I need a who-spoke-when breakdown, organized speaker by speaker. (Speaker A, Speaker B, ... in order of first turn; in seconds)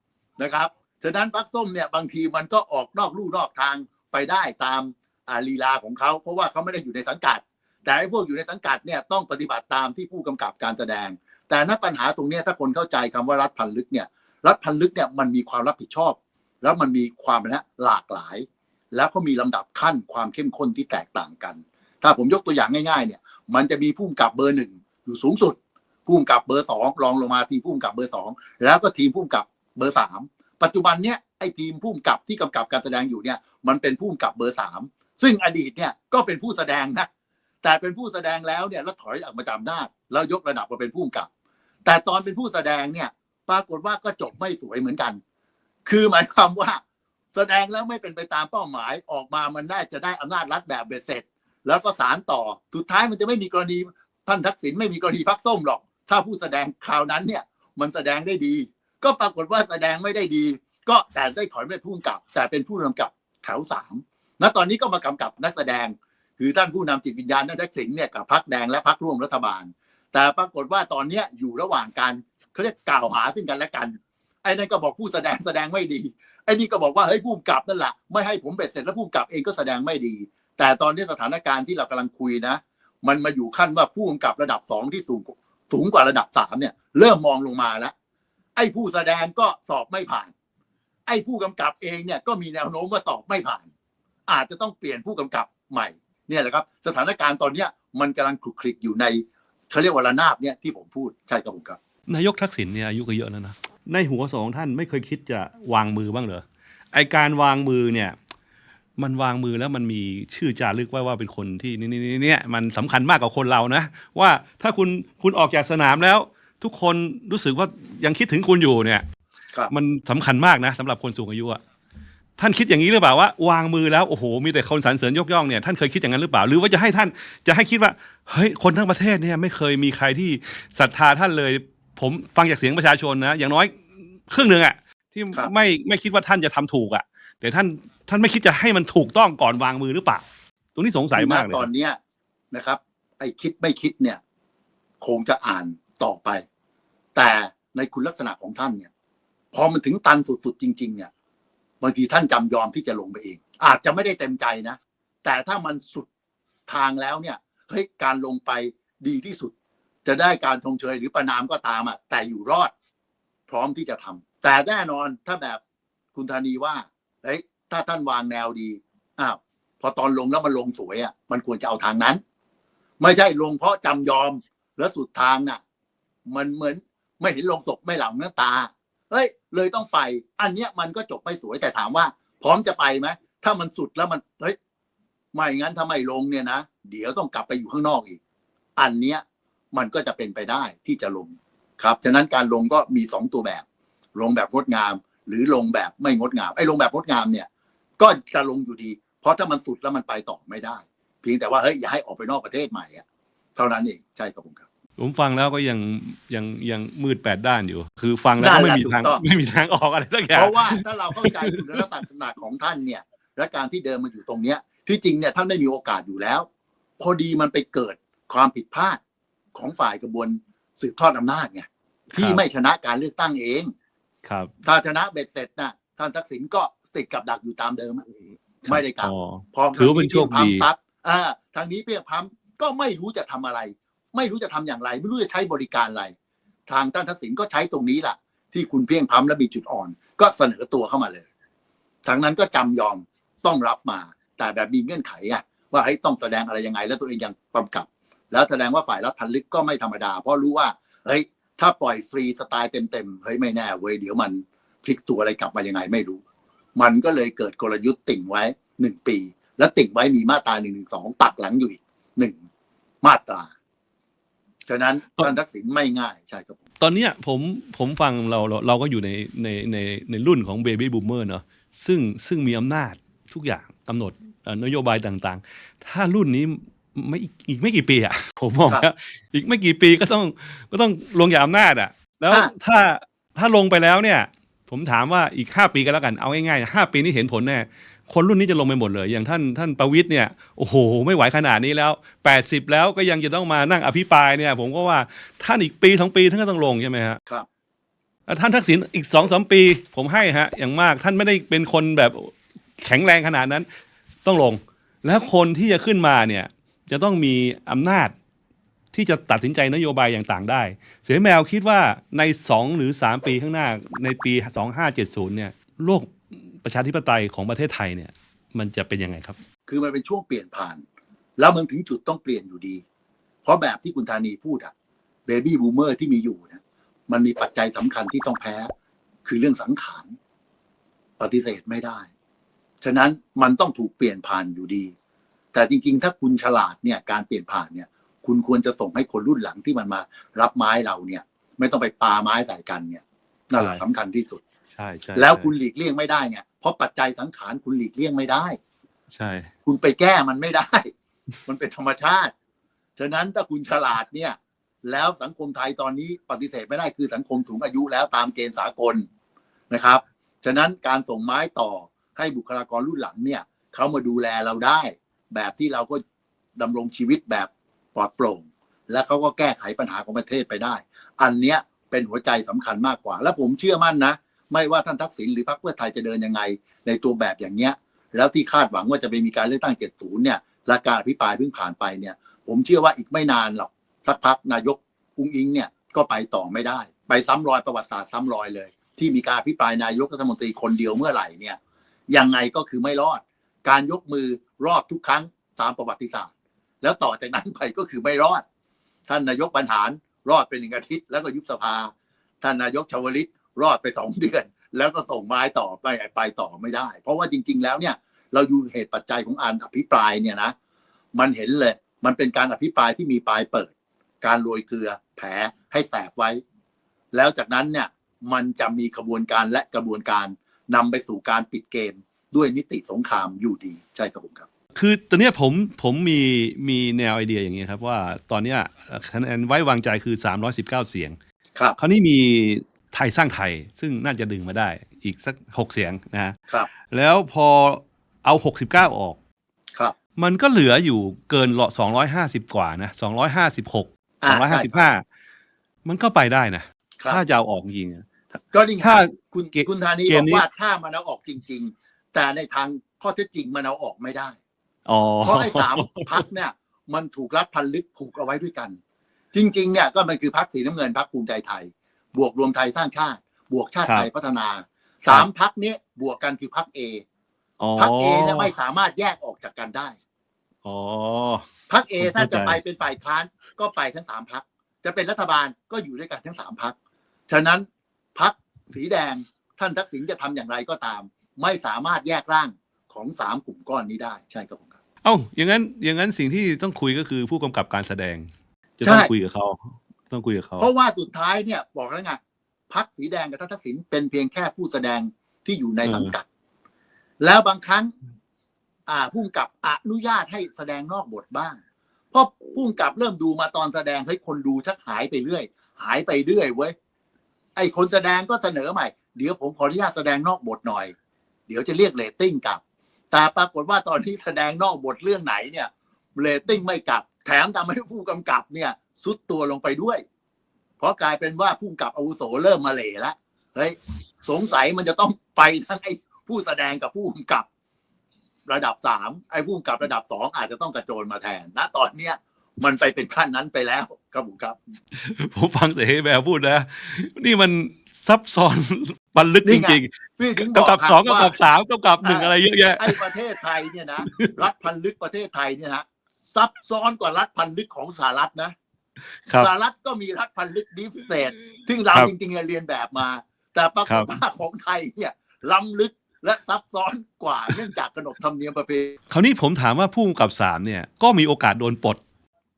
Speaker A: 0.4-37.1, 37.6-41.3, 41.9-45.2, 45.9-46.8, 47.3-87.9, 88.5-90.3, 91.1-93.7, 94.3-101.8, 141.1-142.0, 142.5-144.2, 145.0-146.4, 147.1-148.9, 149.5-151.1, 151.8-156.1, 156.7-159.5, 160.0-162.7, 163.5-165.6, 166.1-172.2, 173.0-175.6, 176.3-184.6, 185.3-188.2, 188.8-197.5, 198.0-203.0, 203.6-204.6, 208.4-209.2, 210.3-216.5, 217.0-219.0, 219.5-223.7, 224.6-228.0, 228.7-236.1, 236.7-241.3, 242.0-256.2, 256.8-262.4, 263.0-263.5, 264.7-266.6, 319.7-320.8, 321.4-322.8, 323.4-324.7, 325.2-328.7, 329.2-330.1, 331.2-332.1, 332.8-334.9, 335.5-344.4, 345.1-348.6, 349.6-350.9, 351.4-352.3, 353.0-359.1, 359.7-366.0, 366.6-391.6, 392.1-396.3, 396.8-398.4, 399.1-410.5, 411.1-416.4, 417.1-424.5, 444.2-444.8, 448.5-454.4, 455.2-458.8, 459.3-467.0, 467.8-470.0, 471.7-476.7, 477.3-484.8, 488.8-489.1, 490.6-492.2, 492.7-496.2, 497.2-497.9, 498.9-501.6, 502.1-506.7, 507.6-510.9, 511.5-520.0, 520.8-527.5, 528.5-534.6, 539.4-541.3, 542.0-548.5, 549.4-559.0
Speaker B: 102.1-108.2, 109.0-119.0, 119.7-121.6, 122.4-141.7, 205.0-211.8, 222.1-222.4, 224.2-224.5, 228.6-230.6, 266.8-297.2, 298.3-303.7, 304.2-308.1, 308.9-319.4, 343.6-343.8, 344.7-345.5, 349.1-349.5, 424.7-431.2, 431.8-436.4, 436.9-439.2, 440.2-445.0, 445.8-450.4, 454.9-456.2, 467.6-468.5, 470.6-471.5, 472.0-472.6, 485.0-490.7, 495.8-496.1, 534.9-543.2, 544.0-544.3, 559.1-562.0